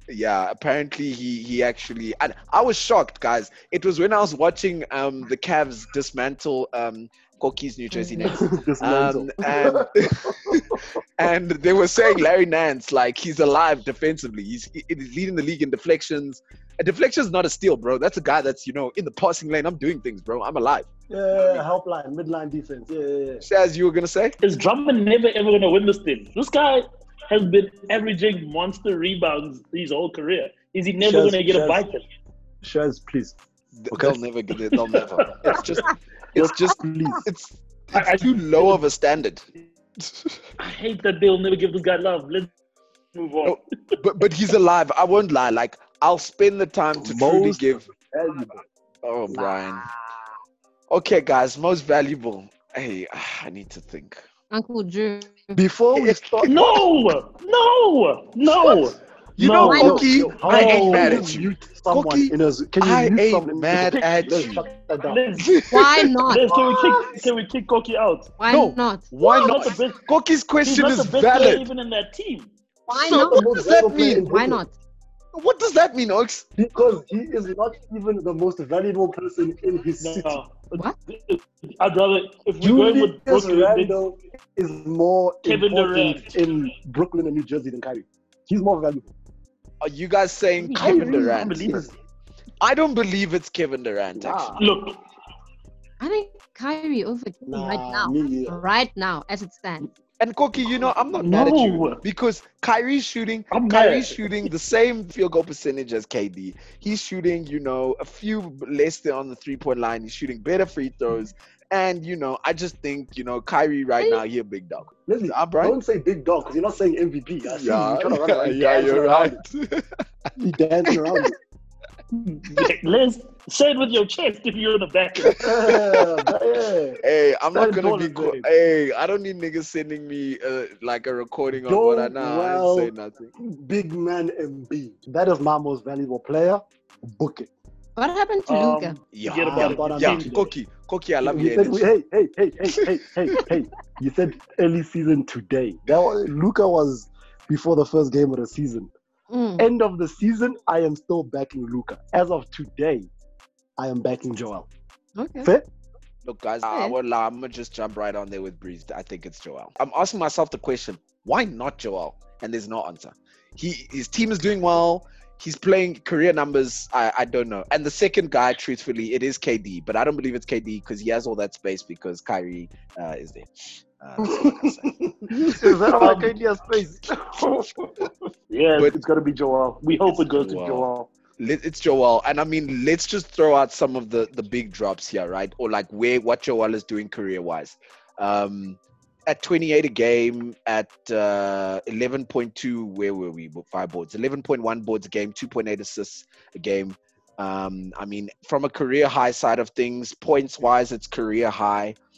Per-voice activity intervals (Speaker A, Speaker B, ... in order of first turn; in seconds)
Speaker A: 0.1-20.9, 23.4-24.4, 33.8-39.4, 40.1-40.4, 43.5-47.9, 49.0-49.9, 50.9-54.2, 55.9-56.7, 59.4-64.6, 65.4-66.2, 68.5-71.7, 72.9-74.3, 75.3-76.5, 89.8-91.8, 92.6-94.6, 100.2-115.8, 117.5-119.9, 125.2-126.3, 127.0-133.3, 139.1-141.9, 156.2-176.2, 180.1-202.0
Speaker B: 7.9-8.3, 54.5-55.6, 59.6-60.1, 65.7-66.4, 68.4-69.6, 72.9-73.4, 74.3-74.7, 96.0-99.9, 138.0-139.0, 149.3-149.7, 155.2-155.5, 156.7-156.9
Speaker C: 8.2-10.6, 21.1-23.4, 31.0-31.9, 32.6-33.4, 33.9-34.2, 36.3-37.2, 47.0-48.6, 49.3-50.2, 55.5-56.8, 59.6-65.2, 66.5-67.2, 73.1-74.6, 76.6-80.4, 82.6-89.1, 90.8-91.9, 94.2-94.6, 97.5-98.6, 115.1-119.4, 120.4-121.3, 125.4-127.0, 127.5-128.5, 131.5-137.5, 139.4-140.5, 141.2-148.9, 149.6-153.1, 153.8-154.7, 174.2-174.7, 175.4-177.1
Speaker D: 24.4-32.0, 37.9-38.8, 40.6-42.5, 43.1-43.6, 56.5-61.3, 63.9-65.6, 66.3-68.3, 69.3-70.0, 70.6-72.5, 80.0-84.0, 85.4-86.3, 90.6-91.9, 94.6-95.0, 101.2-102.0, 103.5-104.5, 122.2-125.5, 138.5-140.5, 176.0-176.3, 178.5-181.1